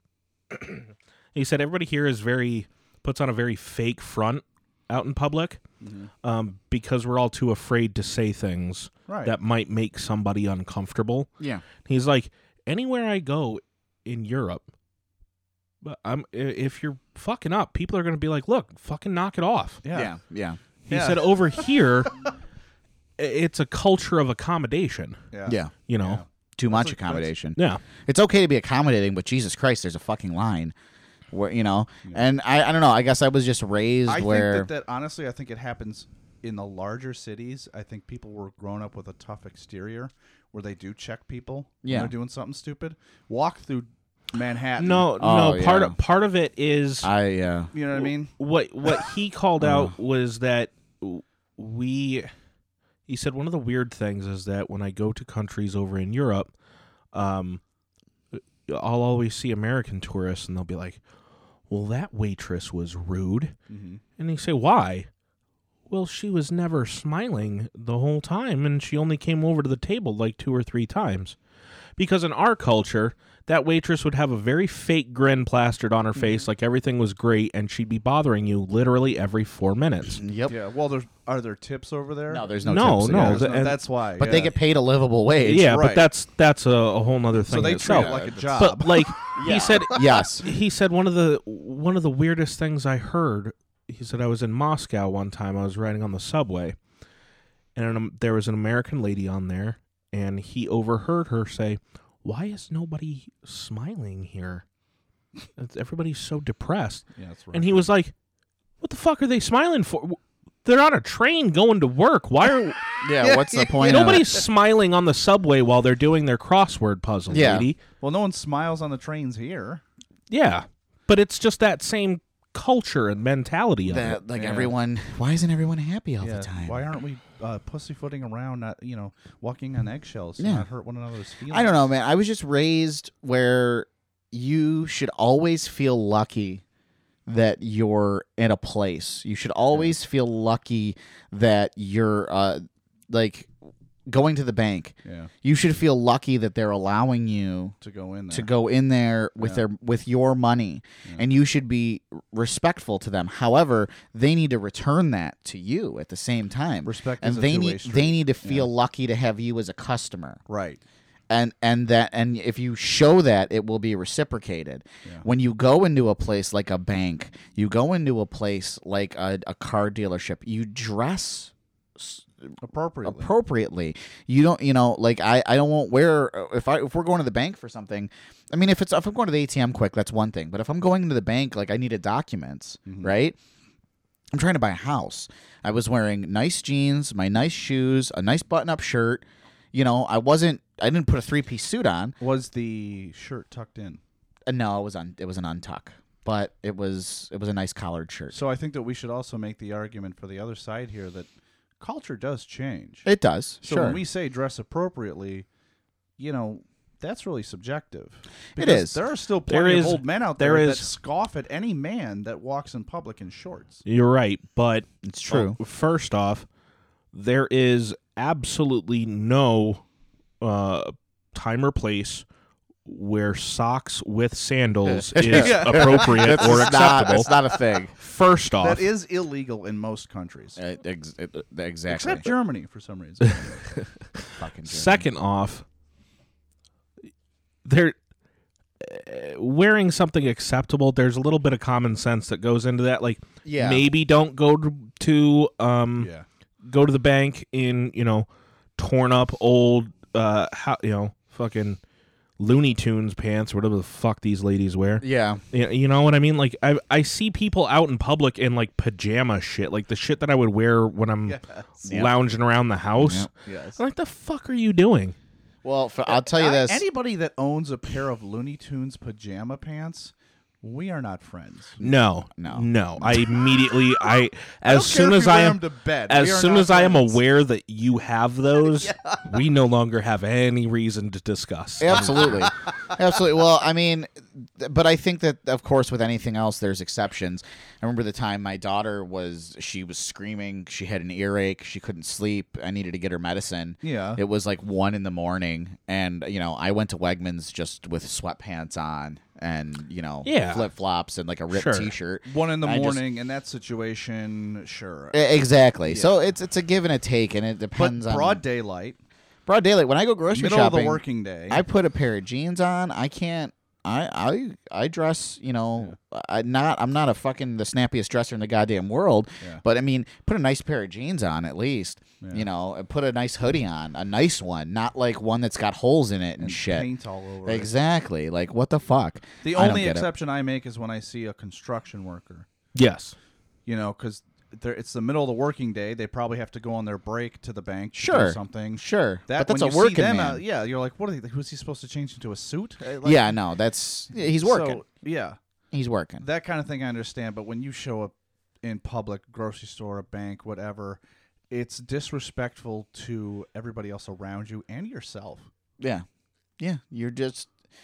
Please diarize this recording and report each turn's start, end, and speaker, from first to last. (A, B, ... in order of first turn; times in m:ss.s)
0:00.5-0:05.6 A
0:05.8-0:06.1 B
0:06.2-0:14.7 A
0:09.1-0:09.3 B
0:11.4-0:11.6 C
0:15.8-0:19.8 A
0:19.8-0:20.1 B
0:19.9-0:20.6 C
0:20.9-0:22.1 A
0:20.9-0:21.3 B
0:23.2-0:25.2 A
0:25.3-0:27.3 B
0:25.4-0:25.7 C
0:25.9-0:26.2 A
0:26.6-0:30.7 C
0:31.3-0:34.7 C
0:34.1-0:45.1 B
0:41.8-0:42.1 C
0:44.8-0:47.1 A
0:45.2-0:46.0 C
0:47.0-0:47.7 C
0:47.7-0:48.3 B
0:48.4-0:52.3 A
0:49.6-0:49.9 C
0:53.1-0:56.5 A
0:57.1-0:57.6 A
0:58.4-1:01.0 A
1:01.7-1:03.5 A
1:03.7-1:04.0 B
1:04.2-1:05.1 A
1:05.9-1:11.4 A
1:12.0-1:20.2 A
1:20.2-1:20.5 C
1:20.5-1:24.5 B
1:22.3-1:23.5 C
1:22.6-1:23.8 A
1:24.2-1:25.8 C
1:25.4-1:36.8 A
1:25.5-1:26.0 B
1:27.5-1:29.4 B
1:27.5-1:28.4 C
1:29.3-1:30.5 C
1:37.8-1:44.6 A
1:45.6-1:48.1 A
1:47.2-1:47.9 B
1:48.8-1:52.9 A
1:53.0-1:54.3 C
1:53.2-1:54.1 B
1:53.8-1:57.8 A
1:57.3-1:57.7 C
1:58.0-1:59.8 B
2:00.3-2:04.2 A
2:03.8-2:06.8 C
2:04.4-2:04.7 B
2:06.2-2:11.8 B
2:10.4-2:10.7 C
2:11.5-2:16.6 C
2:17.2-2:27.7 C
2:25.0-2:25.3 B
2:27.8-2:28.5 B
2:28.3-2:40.4 C
2:36.8-2:38.7 B
2:40.5-2:40.8 B
2:41.3-2:52.5 C
2:52.6-2:53.3 B
2:53.0-3:03.4 C
3:02.8-3:03.1 B
3:04.3-3:12.1 C
3:12.2-3:14.0 B
3:14.4-3:18.4 C
3:18.3-3:21.3 B
3:21.8-3:23.0 B
3:23.0-3:24.0 C
3:23.6-3:25.4 B
3:26.2-3:33.8 B
3:28.6-3:29.0 C
3:29.5-3:30.9 A
3:33.8-3:36.4 A
3:35.0-3:35.6 C
3:37.1-3:39.8 A
3:40.4-3:42.2 A
3:42.8-3:47.4 A
3:44.9-3:47.9 C
3:45.3-3:47.5 B
3:48.0-3:48.8 A
3:48.6-3:50.6 B
3:50.6-3:52.3 C
3:51.9-3:53.7 B
3:54.4-3:55.0 C
3:54.6-3:55.6 A
3:57.6-3:58.0 A
3:58.8-4:06.1 A
4:03.4-4:03.8 C
4:06.0-4:06.2 B
4:06.6-4:11.8 A
4:12.4-4:25.2 A
4:15.0-4:15.4 C
4:21.3-4:21.7 B
4:21.8-4:22.1 C
4:23.0-4:23.3 C
4:23.4-4:23.8 B
4:25.6-4:26.8 C
4:26.1-4:31.8 B
4:31.8-4:33.4 C
4:31.8-4:42.5 A
4:34.6-4:37.2 B
4:38.6-4:39.2 B
4:41.8-5:03.0 C
4:53.8-4:54.2 B
5:00.2-5:00.7 A
5:01.5-5:01.9 A
5:02.2-5:05.2 B
5:05.1-5:08.4 C
5:05.9-5:06.1 B
5:07.8-5:09.0 B
5:09.5-5:26.9 C
5:10.3-5:11.6 B
5:22.2-5:22.5 B
5:26.4-5:27.7 B
5:27.4-5:30.1 C
5:29.4-5:32.5 B
5:32.7-5:33.2 A
5:33.6-5:43.4 B
5:37.9-5:40.4 C
5:43.0-5:44.8 C
5:44.1-5:45.4 B
5:45.7-5:46.2 C
5:46.2-5:55.5 B
5:55.8-5:56.0 C
5:56.6-5:57.5 C